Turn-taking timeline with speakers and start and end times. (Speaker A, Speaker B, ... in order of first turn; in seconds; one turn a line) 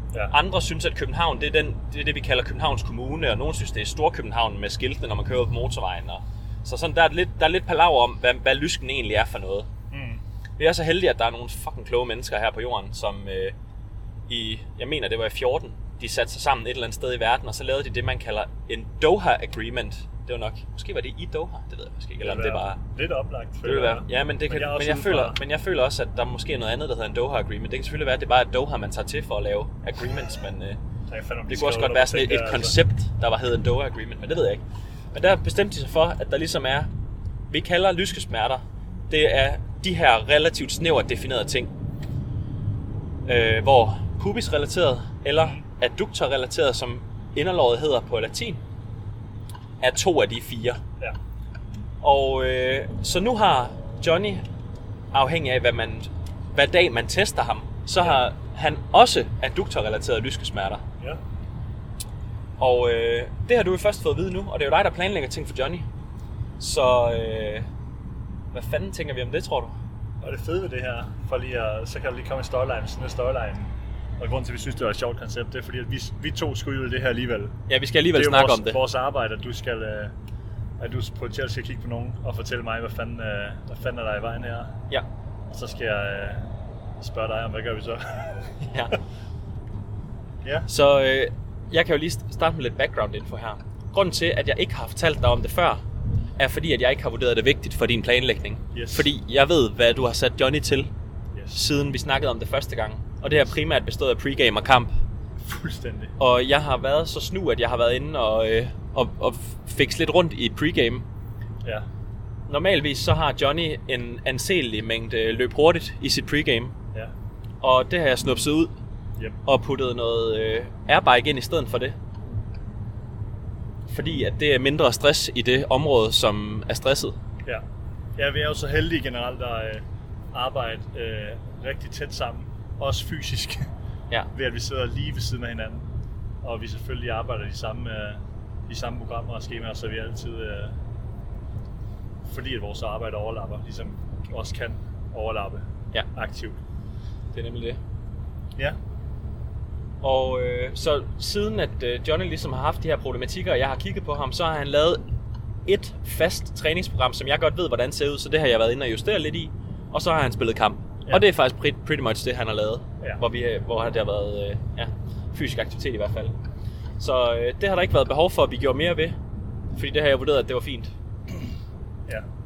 Speaker A: 0.3-9.7
Speaker B: 9.9-10.2
Speaker A: 10.6-13.5
Speaker A: 14.3-22.8
Speaker B: 22.2-25.4
Speaker A: 23.6-30.8
Speaker B: 31.1-32.8
Speaker A: 31.5-36.9
Speaker A: 37.5-41.7
Speaker A: 43.2-48.6
Speaker B: 45.4-45.6
Speaker A: 49.8-50.8
Speaker A: 52.0-54.4
Speaker A: 55.1-60.8
Speaker A: 62.6-65.9
Speaker A: 66.6-67.7
Speaker A: 68.5-69.8
Speaker B: 70.2-77.5
Speaker A: 77.7-78.8
Speaker B: 78.1-80.1
Speaker B: 80.8-84.8
Speaker B: 85.5-88.7
Speaker A: 88.6-88.9
Speaker B: 90.4-90.7
Speaker A: 90.7-95.8
Speaker A: 96.4-100.9
Speaker B: 98.7-99.1
Speaker B: 101.3-101.6
Speaker A: 101.5-104.9
Speaker B: 105.4-106.2
Speaker A: 106.2-111.0
Speaker A: 112.5-116.7
Speaker A: 117.6-118.7
Speaker A: 119.4-122.0
Speaker A: 123.9-127.2
Speaker B: 128.2-133.7
Speaker B: 134.3-135.8
Speaker B: 136.4-140.8
Speaker B: 142.2-146.6
Speaker A: 147.3-147.8
Speaker A: 150.0-155.0
Speaker A: 155.7-166.3
Speaker A: 167.0-169.2
Speaker A: 169.7-170.9